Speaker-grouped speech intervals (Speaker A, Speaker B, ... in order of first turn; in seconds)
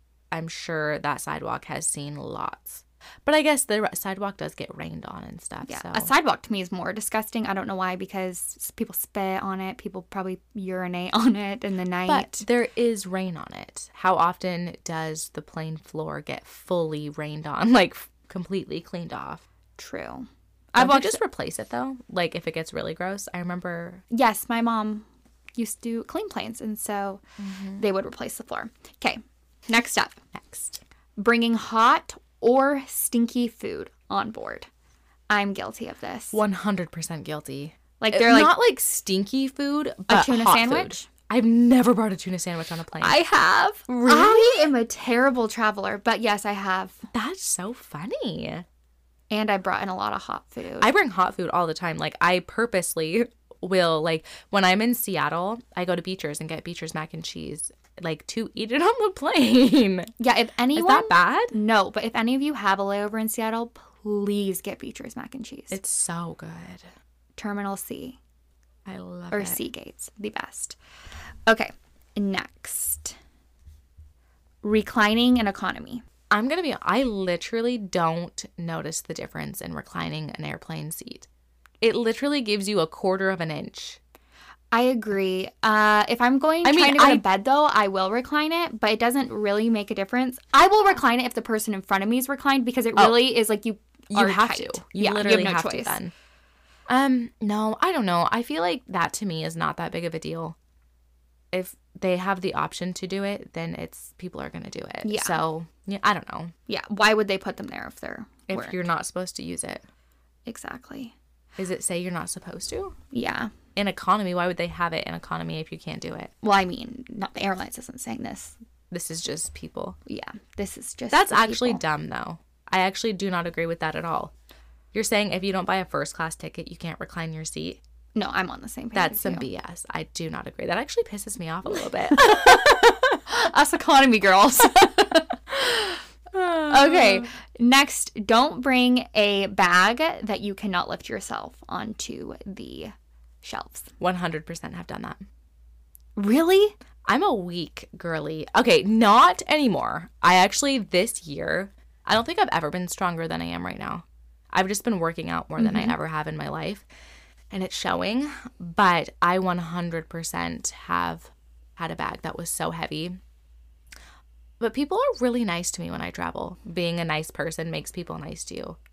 Speaker A: 0.3-6.1, 12.1-19.4, 20.8-24.0, 27.4-27.8, 30.3-30.8, 36.3-43.2, 44.0-44.7, 47.1-48.6, 50.8-60.1, 60.8-61.5, 65.7-66.9, 68.9-69.6, 76.3-81.3, 81.8-84.0, 86.6-87.2, 93.0-93.3, 94.1-96.1, 96.9-100.6, 101.5-106.5, 108.5-109.8, 111.6-113.0, 113.8-116.3, 118.9-120.0, 121.1-124.3, 124.9-127.8, 128.9-133.2, 136.3-137.3, 144.0-145.2, 147.1-156.9, 157.5-163.2, 164.6-168.8
Speaker B: 5.6-12.4, 19.8-21.2, 24.1-27.2, 27.8-30.2, 31.2-34.7, 35.3-36.4, 38.0-38.5, 40.1-41.1, 43.0-47.1, 49.3-50.9, 60.2-65.8, 67.4-68.2, 69.3-70.8, 71.5-73.2, 74.6-76.0, 84.7-96.0, 105.0-105.4, 106.7-108.8, 110.5-111.1, 113.1-113.5, 116.4-118.5, 120.1-121.8, 128.2-129.4, 132.1-132.7, 133.3-136.0, 136.6-143.9, 146.2-146.8, 155.6-155.9